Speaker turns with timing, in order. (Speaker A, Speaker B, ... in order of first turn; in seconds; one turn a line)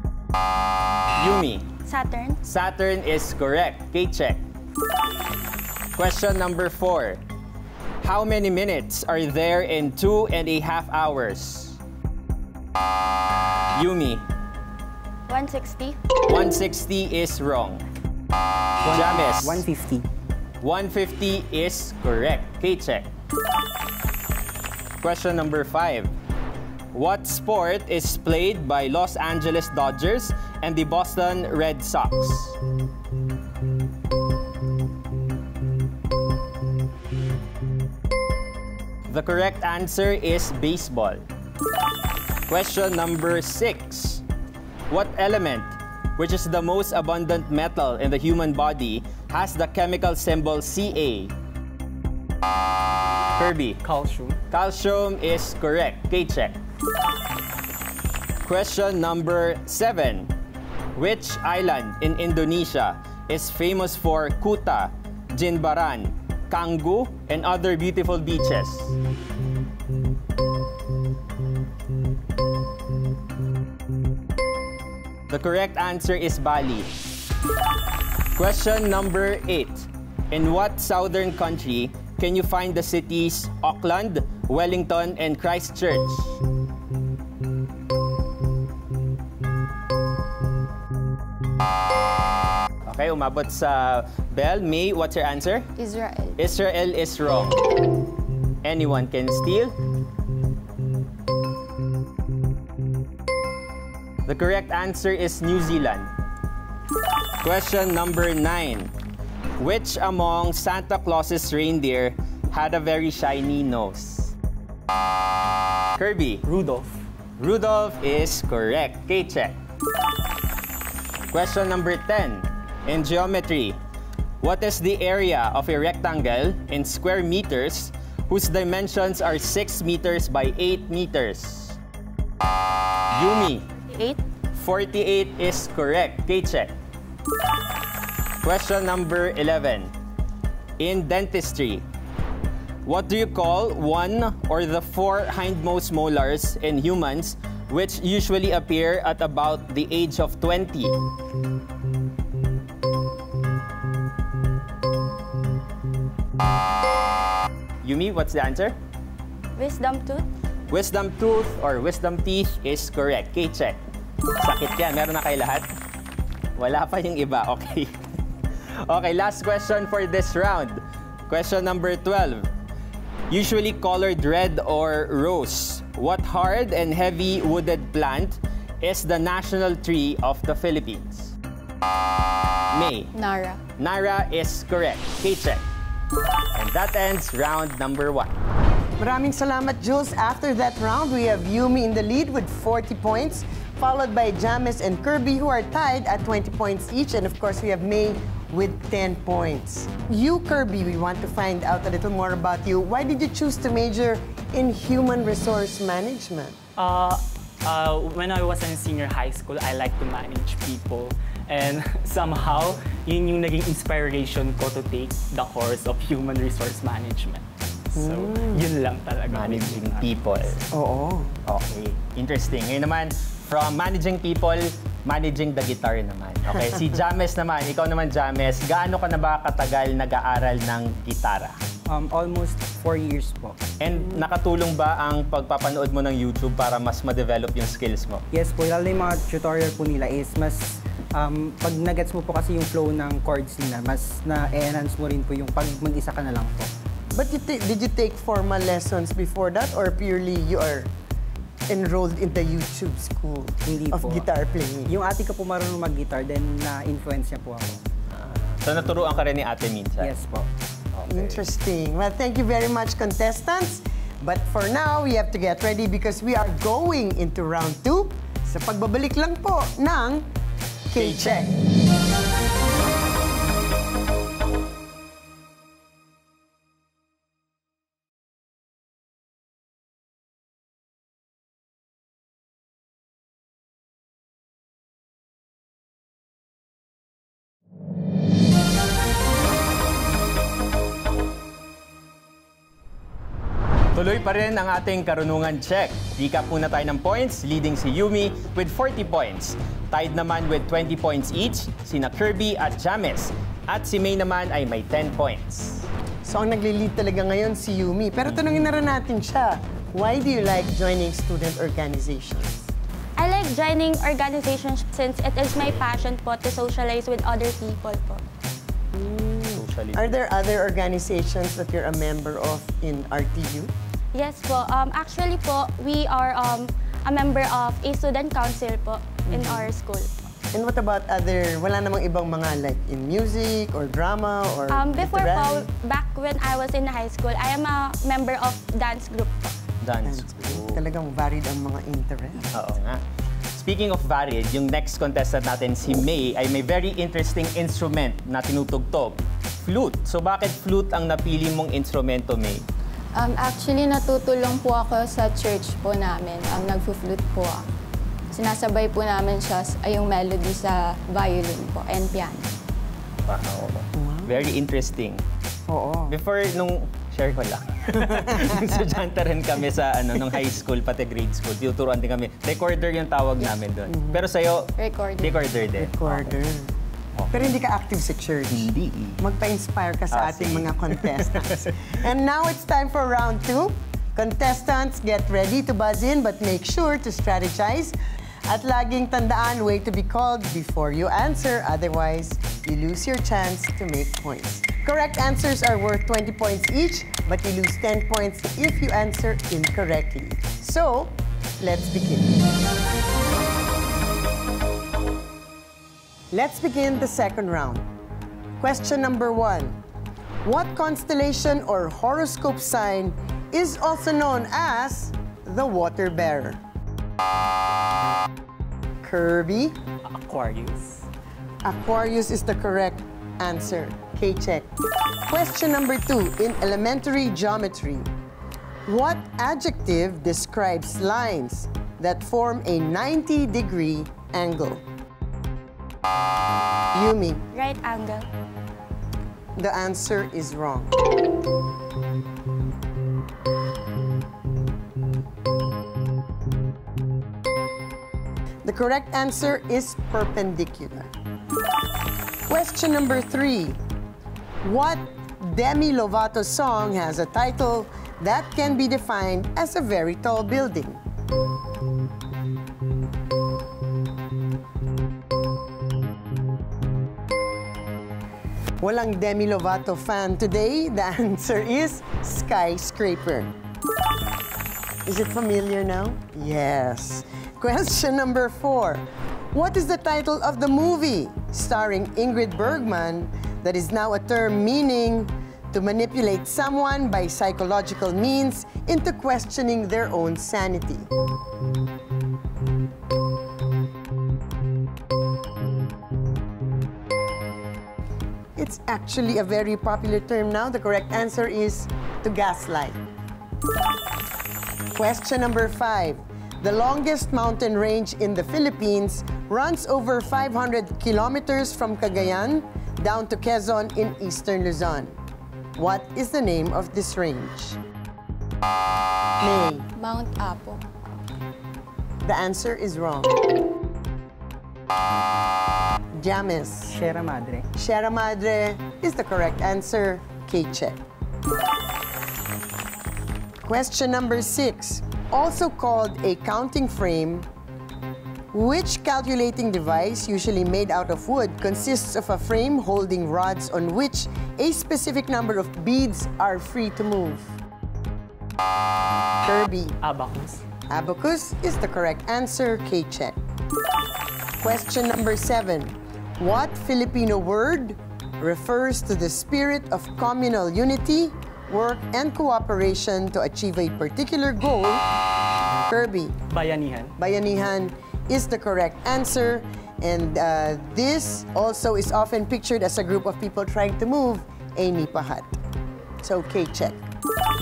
Speaker A: 1.2-1.7
Speaker B: 1.9-2.4
Speaker A: 2.4-4.4
Speaker A: 6.0-7.2
Speaker A: 8.0-11.8
Speaker A: 13.7-14.2
Speaker B: 15.3-16.0
Speaker A: 16.3-17.8
Speaker C: 18.8-20.1
Speaker A: 18.9-19.6
Speaker A: 20.6-23.1
Speaker A: 25.0-26.1
Speaker A: 26.9-32.5
Speaker A: 39.1-41.2
Speaker A: 42.5-44.2
Speaker A: 44.9-51.3
Speaker A: 53.4-53.8
Speaker D: 53.8-54.4
Speaker A: 54.5-56.6
Speaker A: 58.5-60.3
Speaker A: 61.0-68.9
Speaker A: 75.3-76.9
Speaker A: 78.4-86.3
Speaker A: 92.9-95.7
Speaker E: 95.8-96.4
Speaker A: 96.4-97.6
Speaker A: 98.6-99.8
Speaker A: 104.3-106.1
Speaker A: 107.4-108.9
Speaker A: 109.6-114.3
Speaker A: 116.0-116.5
Speaker D: 116.4-117.0
Speaker A: 117.4-119.6
Speaker A: 121.3-123.8
Speaker A: 124.4-131.8
Speaker A: 133.1-133.7
Speaker B: 133.9-134.2
Speaker A: 134.5-136.7
Speaker A: 138.4-139.9
Speaker A: 140.8-141.8
Speaker A: 142.8-151.0
Speaker A: 157.8-158.8
Speaker B: 159.6-160.2
Speaker A: 160.7-163.8
Speaker A: 164.4-165.7
Speaker A: 166.6-167.9
Speaker A: 168.8-172.5
Speaker A: 173.3-181.3
Speaker A: 182.7-183.1
Speaker E: 183.1-183.6
Speaker A: 183.8-185.6
Speaker A: 186.6-188.3
Speaker F: 189.0-206.6
Speaker D: 206.8-220.2
Speaker F: 218.0-218.7
Speaker A: 219.3-220.7
Speaker F: 220.7-221.3
Speaker A: 221.5-231.6
Speaker C: 231.9-233.6
Speaker A: 233.8-238.2
Speaker C: 238.3-246.7
Speaker F: 247.1-250.9
Speaker F: 251.7-254.9
Speaker C: 253.7-254.3
Speaker C: 254.9-257.8
Speaker A: 258.6-260.1
Speaker C: 260.0-260.5
Speaker A: 260.9-261.4
Speaker F: 261.1-270.3
Speaker F: 270.9-271.5
Speaker A: 270.9-271.5
Speaker A: 293.9-305.9
Speaker F: 306.2-312.7
Speaker B: 313.2-318.2
Speaker F: 318.9-323.7
Speaker A: 319.6-320.2
Speaker B: 324.1-330.1
Speaker F: 329.3-329.7
Speaker F: 330.5-335.7
Speaker B: 334.7-339.6
Speaker A: 339.8-340.8
Speaker F: 340.0-342.5
Speaker A: 342.5-343.0
Speaker A: 343.6-352.6
Speaker E: 353.1-357.6
Speaker E: 358.3-362.5
Speaker A: 363.3-365.2
Speaker F: 364.0-364.3
Speaker F: 365.7-366.1
Speaker A: 366.1-376.3
Speaker F: 368.3-368.6
Speaker F: 373.9-374.2
Speaker E: 374.8-375.5
Speaker F: 375.8-376.7
Speaker A: 377.2-377.4
Speaker F: 377.3-378.7
Speaker A: 378.5-379.2
Speaker F: 379.2-388.0
Speaker A: 380.1-381.5
Speaker F: 388.5-402.4
Speaker F: 406.3-407.9
Speaker F: 408.6-409.8
Speaker F: 410.4-416.6
Speaker F: 419.0-419.8
Speaker D: 420.1-421.1
Speaker F: 421.6-424.7
Speaker F: 425.3-428.1
Speaker F: 428.9-434.8
Speaker F: 436.9-437.4
Speaker B: 437.5-438.3
Speaker F: 439.6-440.9
Speaker F: 448.6-451.1
Speaker F: 452.5-453.8
Speaker F: 454.6-461.0
Speaker F: 468.8-473.5
Speaker F: 475.1-491.1
Speaker F: 498.6-503.0
Speaker F: 504.9-515.2
Speaker F: 515.8-517.8
Speaker F: 519.4-519.9
Speaker E: 520.0-520.8
Speaker F: 522.2-523.4
Speaker F: 526.1-527.0
Speaker C: 526.9-527.7
Speaker F: 527.8-531.0
Speaker F: 533.6-537.5
Speaker F: 538.5-547.5
Speaker F: 549.5-550.0
Speaker D: 550.0-550.6
Speaker F: 550.9-553.4
Speaker F: 554.6-565.1
Speaker F: 565.9-566.4
Speaker D: 566.5-567.2
Speaker F: 567.2-575.6
Speaker F: 576.2-577.1